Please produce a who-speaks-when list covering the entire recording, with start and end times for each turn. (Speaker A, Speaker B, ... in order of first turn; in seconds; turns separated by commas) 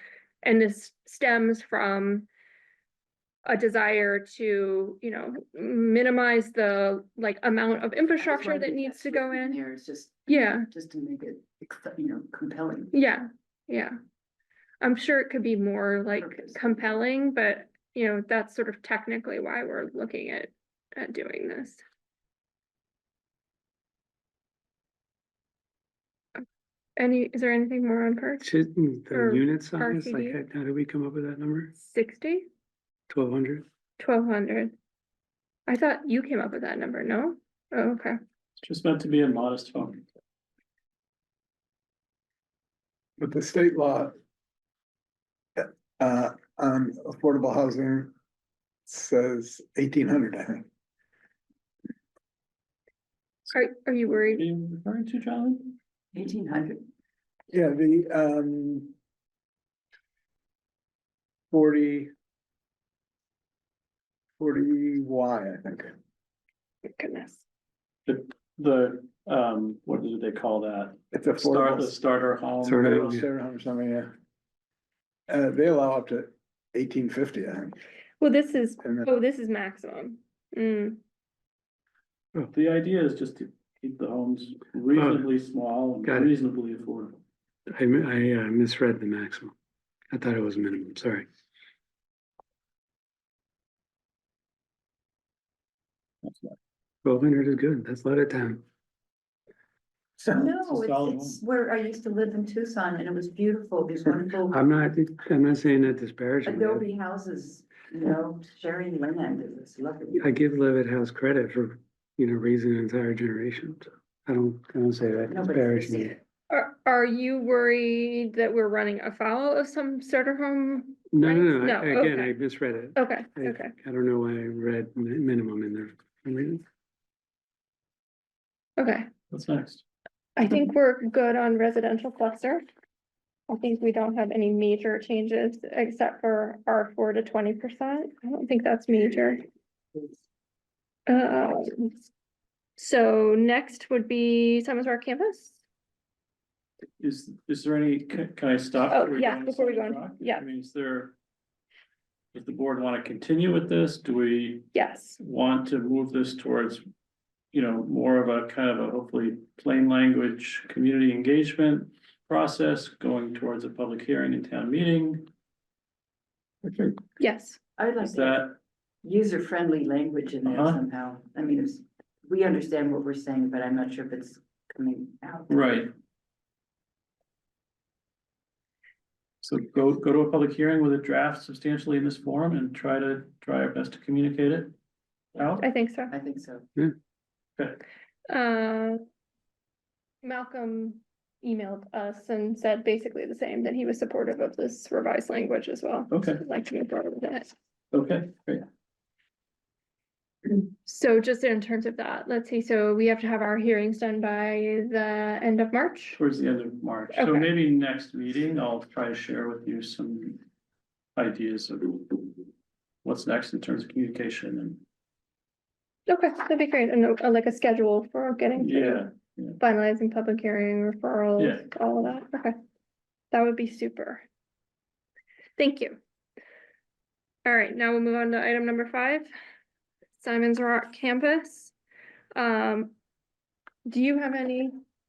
Speaker A: 0.4-2.3, Speaker A: 3.5-9.6, Speaker B: 8.2-12.9, Speaker A: 10.3-10.7, Speaker A: 12.9-13.9, Speaker A: 14.8-21.8, Speaker B: 16.2-16.8, Speaker A: 27.0-28.5, Speaker C: 28.4-31.7, Speaker A: 29.1-30.4, Speaker A: 31.7-32.4, Speaker C: 33.1-33.6, Speaker A: 34.0-34.7, Speaker A: 35.7-38.2, Speaker D: 38.6-40.0, Speaker E: 43.2-44.1, Speaker E: 45.6-48.1, Speaker E: 48.9-50.6, Speaker A: 53.5-54.4, Speaker D: 54.3-55.8, Speaker B: 56.1-56.9, Speaker E: 57.5-58.9, Speaker E: 61.5-62.1, Speaker E: 64.4-65.9, Speaker A: 67.0-67.4, Speaker D: 68.0-73.2, Speaker E: 71.1-71.9, Speaker C: 72.6-73.2, Speaker E: 72.8-74.1, Speaker E: 75.3-77.7, Speaker A: 78.2-81.0, Speaker D: 82.5-87.2, Speaker C: 84.9-85.3, Speaker C: 86.0-86.3, Speaker C: 87.7-89.5, Speaker C: 90.1-91.3, Speaker D: 96.2-96.5, Speaker C: 97.0-98.6, Speaker B: 100.3-104.6, Speaker D: 100.6-101.4, Speaker C: 104.5-106.8, Speaker B: 106.4-110.3, Speaker C: 110.1-116.2, Speaker B: 115.3-116.2, Speaker A: 116.5-122.3, Speaker C: 121.1-126.6, Speaker A: 122.9-123.7, Speaker A: 128.8-129.1, Speaker D: 129.3-129.8, Speaker A: 130.3-132.6, Speaker A: 133.5-139.4, Speaker A: 141.1-141.9, Speaker A: 142.8-145.6, Speaker D: 147.0-151.2, Speaker A: 148.9-150.4, Speaker D: 152.3-154.7, Speaker A: 154.7-155.2, Speaker D: 155.2-156.8, Speaker D: 157.5-165.3, Speaker D: 166.6-167.0, Speaker A: 167.2-167.6, Speaker B: 167.8-175.7, Speaker D: 168.0-168.5, Speaker D: 170.4-170.8, Speaker D: 175.5-175.9, Speaker D: 179.4-184.7, Speaker D: 185.3-185.6, Speaker A: 185.6-186.1, Speaker B: 186.1-186.7, Speaker A: 188.3-189.0, Speaker A: 190.2-197.5, Speaker D: 196.1-196.4, Speaker D: 197.9-198.6, Speaker A: 200.5-206.2, Speaker D: 206.2-210.4, Speaker A: 207.1-207.5, Speaker D: 211.2-212.3, Speaker D: 213.0-214.8, Speaker A: 216.1-219.1, Speaker D: 218.6-219.6, Speaker A: 219.6-222.5, Speaker D: 221.4-221.6, Speaker A: 223.3-224.2, Speaker A: 225.6-226.0, Speaker A: 227.4-229.3, Speaker A: 230.2-231.7, Speaker A: 232.3-232.9, Speaker A: 233.8-234.7